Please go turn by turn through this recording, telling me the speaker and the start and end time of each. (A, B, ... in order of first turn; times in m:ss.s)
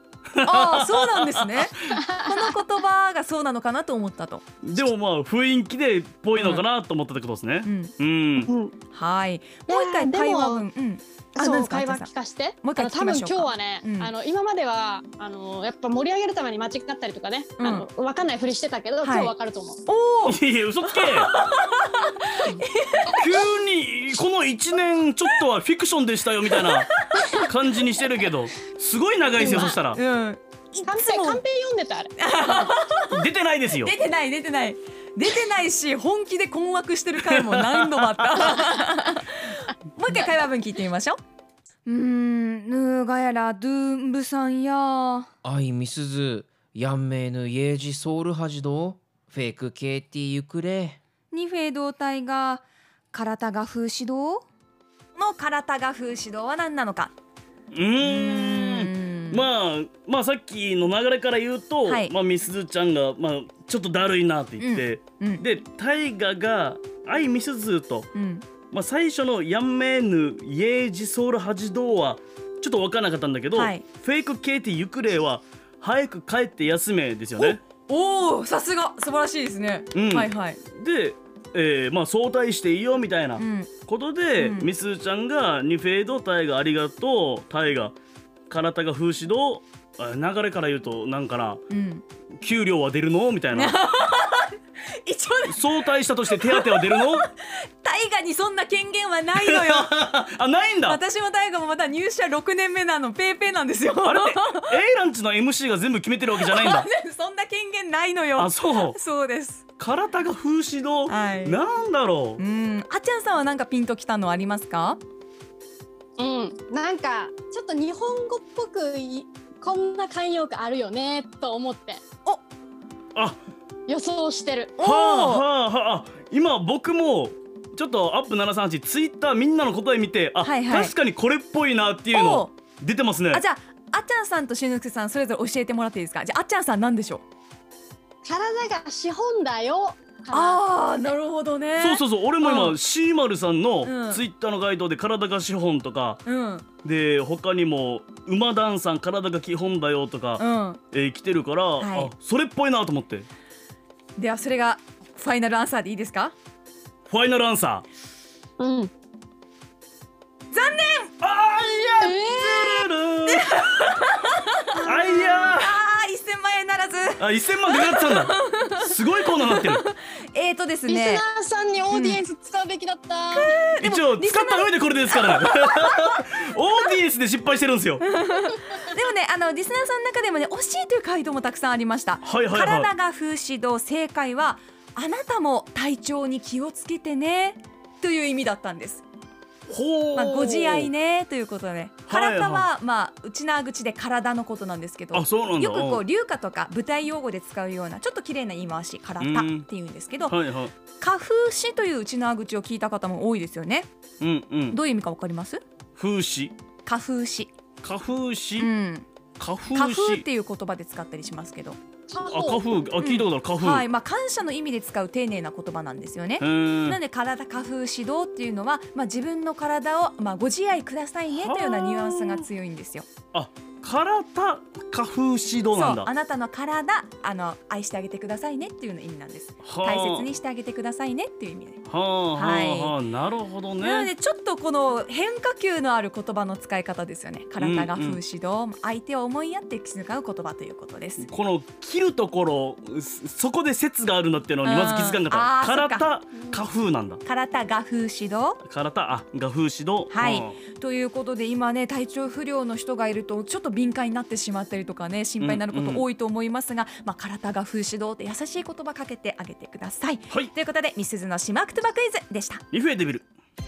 0:00.3-0:01.9 A
0:00.4-0:04.4 B
0:01.9-0:02.5 C
0:04.6-0:08.5 A
0:06.3-0:06.6 B
0:07.6-0:07.9 B
0:08.4-0:08.7 C
0:08.9-0:12.1 B
0:09.7-0:10.6 C
0:11.4-0:19.8 C
0:12.6-0:14.1 B
0:17.6-0:17.8 B
0:19.0-0:19.3 B
0:19.8-0:23.2 B
0:20.2-0:21.3 A
0:23.1-0:30.0 A
0:26.5-0:27.4 B
0:29.4-0:29.7 C
0:29.9-0:31.4 B
0:30.8-0:32.1 C
0:32.2-0:33.2 B
0:33.0-0:33.9 A
0:33.8-0:41.2 B
0:37.2-0:38.2 A
0:41.8-0:45.3 B
0:45.4-0:51.0 D
0:51.3-0:54.4 B
0:55.1-0:57.1 B
0:57.7-1:08.1 A
0:58.0-0:59.4 B
1:01.8-1:02.1 B
1:04.6-1:05.4 B
1:08.1-1:08.4 B
1:08.7-1:17.6 A
1:13.5-1:13.8 B
1:17.4-1:20.6 B
1:19.9-1:27.9 A
1:23.4-1:23.7 B
1:24.4-1:24.7 B
1:28.5-1:31.6 A
1:31.7-1:32.0 B
1:32.4-1:33.8 A
1:33.5-1:39.9 B
1:35.5-1:37.3 A
1:39.3-1:41.0 A
1:40.8-1:44.7 B
1:44.0-1:46.9 A
1:46.4-1:49.6 B
1:48.4-1:49.0 A
1:49.8-1:52.4 A
1:51.1-1:51.6 B
1:52.4-1:55.0 B
1:56.2-2:02.0 C
2:03.9-2:04.7 C
2:04.8-2:05.4 B
2:04.8-2:13.4 A
2:10.4-2:10.9 B
2:12.1-2:12.5 B
2:13.3-2:17.2 B
2:18.2-2:20.6 C
2:20.3-2:22.8 B
2:21.8-2:26.2 A
2:23.8-2:24.2 B
2:26.2-2:26.6 B
2:26.8-2:33.3 A
2:30.4-2:30.8 B
2:31.8-2:32.1 B
2:34.2-2:36.3 B
2:37.1-2:37.8 A
2:38.6-2:38.9 C
2:40.5-2:41.1 B
2:41.2-2:43.8 A
2:42.0-2:42.8 C
2:43.2-2:51.2 B
2:44.8-2:45.8 A
2:47.2-2:49.8 A
2:50.9-2:53.5 C
2:51.9-2:52.2 B
2:53.3-2:56.1 B
2:53.8-2:58.0 A
2:58.0-3:09.0 B
3:02.2-3:02.9 A
3:09.7-3:10.9 A
3:10.1-3:20.3 B
3:12.1-3:12.7 A
3:15.1-3:16.0 A
3:19.2-3:19.7 A
3:20.2-3:20.7 A
3:21.0-3:23.9 B
3:24.2-3:24.8 A
3:24.7-3:25.6 B
3:26.0-3:26.5 A
3:26.8-3:27.5 B
3:27.8-3:28.7 A
3:28.6-3:29.1 B
3:29.4-3:30.2 A
3:29.7-3:31.8 B
3:32.1-3:32.6 C
3:32.2-3:33.8 A
3:33.0-3:43.1 B
3:36.4-3:37.0 A
3:41.3-3:42.5 A
3:43.3-3:46.1 A
3:45.7-3:51.8 B
3:49.6-3:50.3 A
3:51.9-3:54.1 A
3:52.3-3:53.0 B
3:53.8-4:01.3 B
3:57.6-3:58.2 A
4:01.2-4:07.2 A
4:04.6-4:06.1 B
4:07.2-4:08.6 B
4:08.6-4:10.6 A
4:10.1-4:22.6 B
4:15.4-4:16.0 A
4:22.7-4:23.3 A